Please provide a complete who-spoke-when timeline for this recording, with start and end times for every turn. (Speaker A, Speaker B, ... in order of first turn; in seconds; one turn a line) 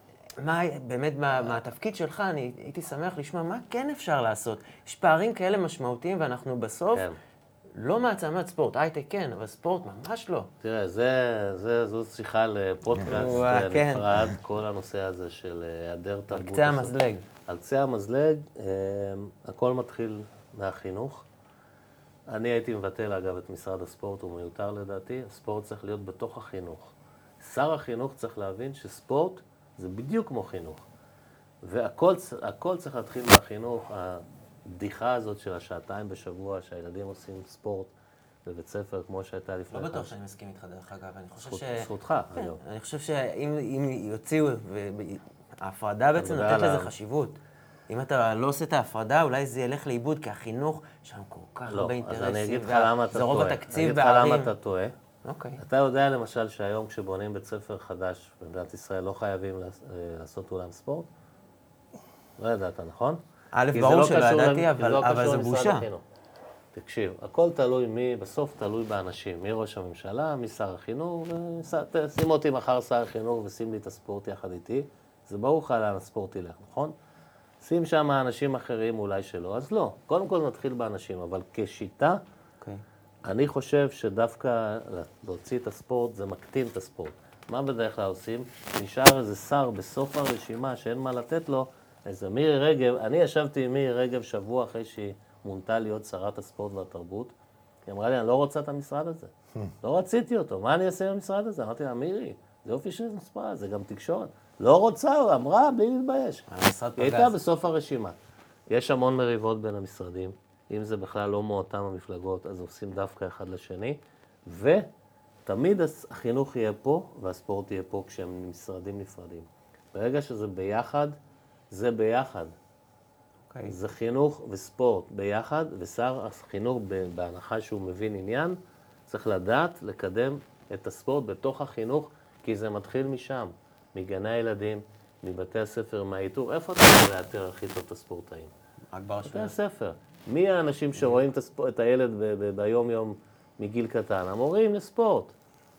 Speaker A: 0.4-7.1
Speaker A: 7.7-10.5
Speaker B: 10.6-16.9
Speaker A: 13.0-14.1
Speaker A: 16.3-17.2
Speaker B: 17.5-21.2
Speaker B: 22.3-30.9
Speaker B: 31.6-37.9
Speaker B: 38.5-40.1
Speaker A: 39.7-47.4
Speaker B: 41.4-42.6
Speaker B: 46.1-46.9
Speaker A: 47.9-54.5
Speaker B: 51.7-54.9
Speaker A: 55.2-55.6
Speaker B: 55.6-61.1
Speaker B: 62.4-63.2
Speaker A: 63.5-65.8
Speaker B: 63.7-66.0
Speaker B: 66.7-76.9
Speaker B: 77.6-82.2
Speaker B: 83.2-97.3
Speaker B: 97.9-106.5
Speaker A: 106.5-107.3
Speaker B: 107.0-108.2
Speaker B: 108.7-114.9
Speaker B: 115.5-121.2
Speaker B: 121.7-122.5
Speaker A: 123.5-123.8
Speaker B: 123.7-128.6
Speaker B: 129.1-138.5
Speaker A: 138.9-139.5
Speaker B: 139.2-145.3